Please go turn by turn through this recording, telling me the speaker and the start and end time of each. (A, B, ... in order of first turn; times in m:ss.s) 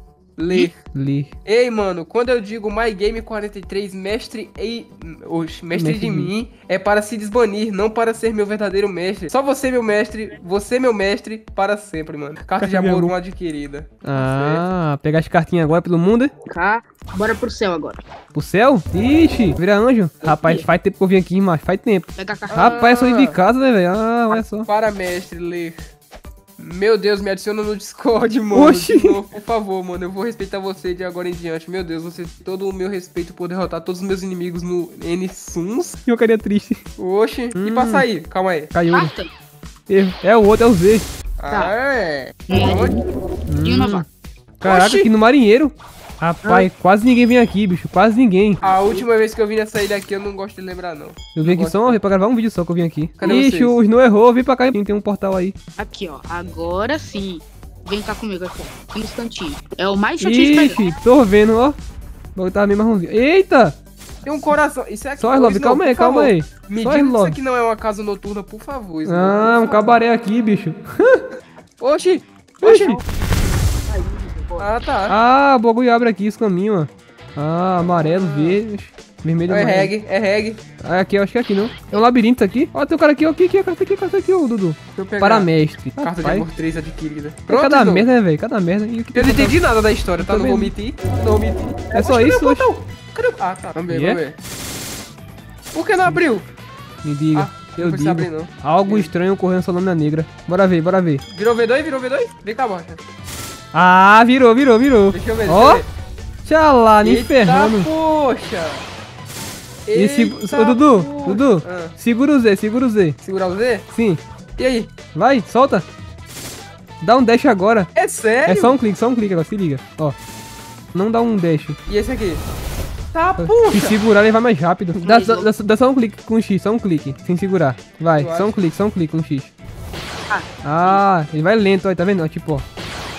0:00.4-0:00.8 A
0:00.8-0:01.3 B
0:01.4-0:14.6 A
0:05.7-0:06.3 B
0:12.6-0:13.1 B
0:14.0-0:16.3 B
0:16.5-0:18.0 C
0:18.3-0:24.7 B
0:20.2-0:20.7 C
0:22.2-0:22.8 C
0:22.5-0:23.4 A
0:24.6-0:25.8 A
0:26.6-0:36.0 A
0:28.5-0:29.2 B
0:36.1-0:36.8 B
0:37.0-0:38.7 A
0:37.6-0:38.1 B
0:38.7-0:39.1 B
0:38.9-0:39.3 C
0:39.9-0:41.1 B
0:41.4-0:43.0 A
0:41.5-0:41.8 C
0:42.5-0:43.0 C
0:43.5-0:44.1 B
0:43.6-0:44.1 C
0:44.6-0:48.6 B
0:44.7-0:45.1 C
0:48.6-0:49.0 C
0:48.6-0:52.0 A
0:51.4-0:55.6 B
0:53.2-0:53.8 A
0:55.8-1:01.0 C
1:00.2-1:01.8 B
1:02.4-1:03.8 B
1:04.2-1:09.9 A
1:05.2-1:07.4 B
1:09.1-1:11.2 B
1:11.8-1:13.0 A
1:12.6-1:14.7 C
1:12.7-1:13.0 B
1:14.6-1:15.2 A
1:15.1-1:19.9 B
1:17.9-1:18.6 A
1:19.5-1:20.6 A
1:20.8-1:26.5 B
1:25.0-1:28.1 A
1:27.5-1:29.6 B
1:29.1-1:34.4 A
1:30.2-1:30.7 B
1:31.9-1:32.7 B
1:33.9-1:34.2 B
1:35.7-1:36.5 A
1:37.0-1:41.2 B
1:37.3-1:39.1 A
1:41.3-1:43.0 A
1:43.7-1:45.8 B
1:45.1-1:45.9 A
1:46.4-1:47.9 B
1:47.0-1:48.8 A
1:49.9-1:52.0 A
1:50.0-1:53.2 B
1:53.2-1:53.9 A
1:53.9-1:54.2 B
1:54.6-1:54.9 A
1:55.1-1:55.9 B
1:57.0-1:57.9 B
1:58.0-1:58.8 A
1:58.4-2:00.2 B
2:00.9-2:01.8 B
2:01.9-2:02.4 A
2:03.1-2:04.0 A
2:03.4-2:09.5 B
2:05.0-2:05.5 C
2:08.2-2:08.6 A
2:10.3-2:11.0 C
2:10.6-2:12.6 B